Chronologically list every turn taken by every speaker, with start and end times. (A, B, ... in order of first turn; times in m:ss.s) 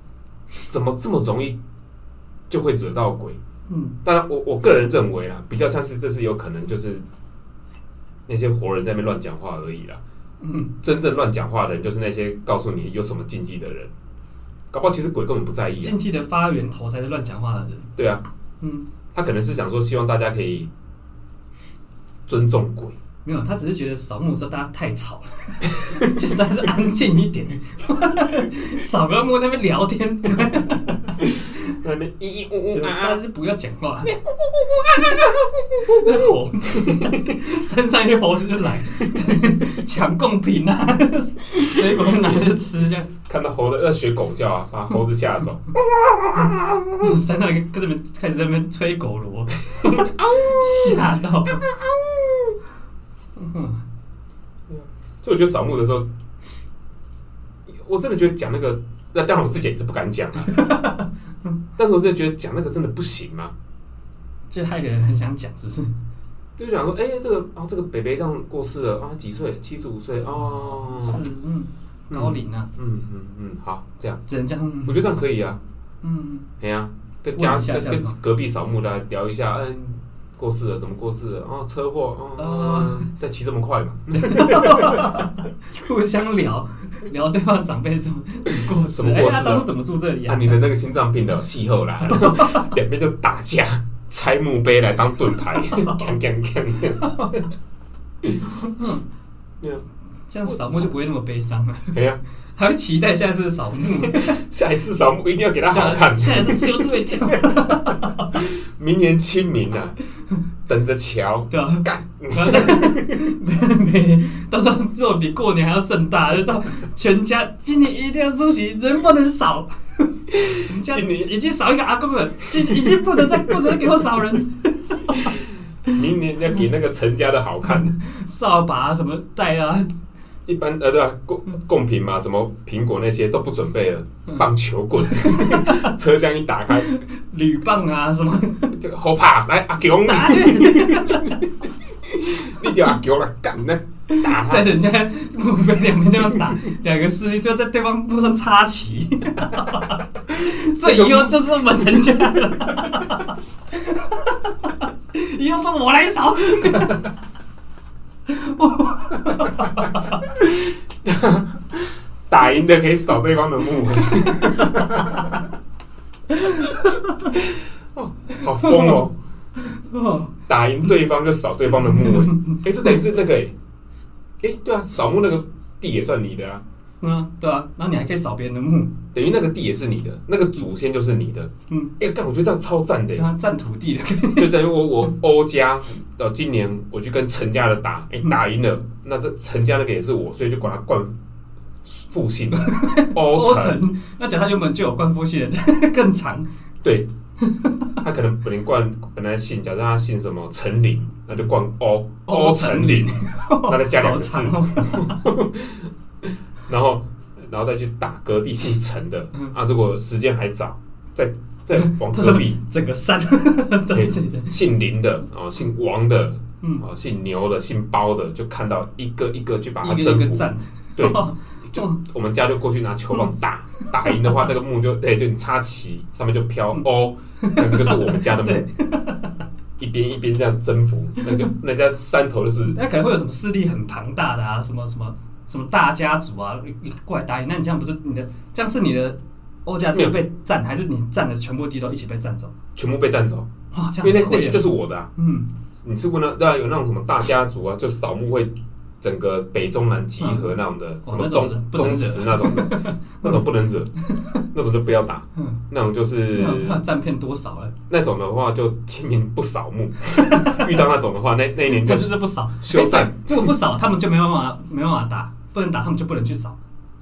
0:00.7-0:01.6 A
0:02.5-0:03.4 A
0:03.7-0:04.0 B
0:04.0-0:07.0 A
0:08.3-0:10.0 A
0:10.4-0:10.7 B
0:10.8-0:13.9 A
0:14.7-0:16.0 A
0:15.8-0:17.9 B
0:18.0-0:18.2 A
0:18.6-0:18.9 B
0:19.1-0:20.7 A
0:22.3-0:23.0 A
0:23.2-0:31.1 B
0:31.2-0:33.2 A
0:32.7-0:34.2 B
0:34.0-0:37.4 A
0:35.9-0:43.1 B
0:41.8-0:42.5 A
0:43.3-0:47.2 A
0:47.0-0:51.7 B
0:49.8-0:52.5 A
0:53.4-0:53.8 B
0:54.7-0:56.1 A
0:57.7-1:00.6 A
1:00.5-1:01.1 B
1:01.8-1:03.5 A
1:04.5-1:05.9 B
1:06.6-1:11.2 A
1:10.3-1:12.7 B
1:12.1-1:14.2 A
1:14.3-1:15.1 B
1:14.9-1:15.6 A
1:16.0-1:16.5 B
1:16.6-1:25.2 A
1:17.4-1:18.2 B
1:22.4-1:23.1 B
1:24.2-1:30.6 B
1:28.9-1:29.7 A
1:30.2-1:37.5 A
1:32.1-1:32.7 B
1:38.6-1:39.0 B
1:40.3-1:42.0 B
1:41.9-1:42.2 A
1:42.5-1:44.3 B
1:44.0-1:50.0 A
1:45.7-1:48.3 B
1:50.7-1:53.2 A
1:51.5-2:05.4 B
2:00.3-2:01.4 A
2:02.5-2:04.4 A
2:05.1-2:07.9 A
2:07.7-2:09.9 B
2:10.5-2:17.0 A
2:15.1-2:15.9 B
2:16.9-2:18.8 B
2:18.8-2:21.5 A
2:20.0-2:21.4 B
2:22.0-2:24.9 A
2:24.1-2:37.1 B
2:30.5-2:31.4 A
2:38.3-2:40.2 B
2:40.3-2:45.5 A
2:44.1-2:44.8 B
2:46.3-2:47.4 B
2:47.9-2:49.2 A
2:48.4-2:49.1 B
2:49.6-2:50.3 B
2:50.5-2:53.6 A
2:51.9-2:52.6 B
2:54.4-2:56.6 A
2:57.0-2:58.9 B
2:59.1-3:03.3 A
3:03.2-3:04.5 B
3:04.3-3:11.2 A
3:11.8-3:13.8 A
3:12.6-3:16.5 B
3:16.8-3:17.1 A
3:17.4-3:17.9 B
3:18.0-3:32.6 A
3:22.3-3:25.2 B
3:31.8-3:34.6 B
3:33.9-3:48.7 A
3:39.8-3:42.0 B
3:43.8-3:44.2 B
3:47.4-3:49.4 B
3:49.8-3:52.8 A
3:52.6-4:02.5 B
4:02.8-4:03.5 A
4:03.7-4:05.5 B
4:04.0-4:05.1 A
4:05.8-4:13.9 A
4:10.2-4:10.5 B
4:11.0-4:13.4 B
4:14.5-4:16.8 A
4:16.3-4:17.7 B
4:17.9-4:23.6 A
4:20.3-4:20.6 B
4:21.7-4:26.6 B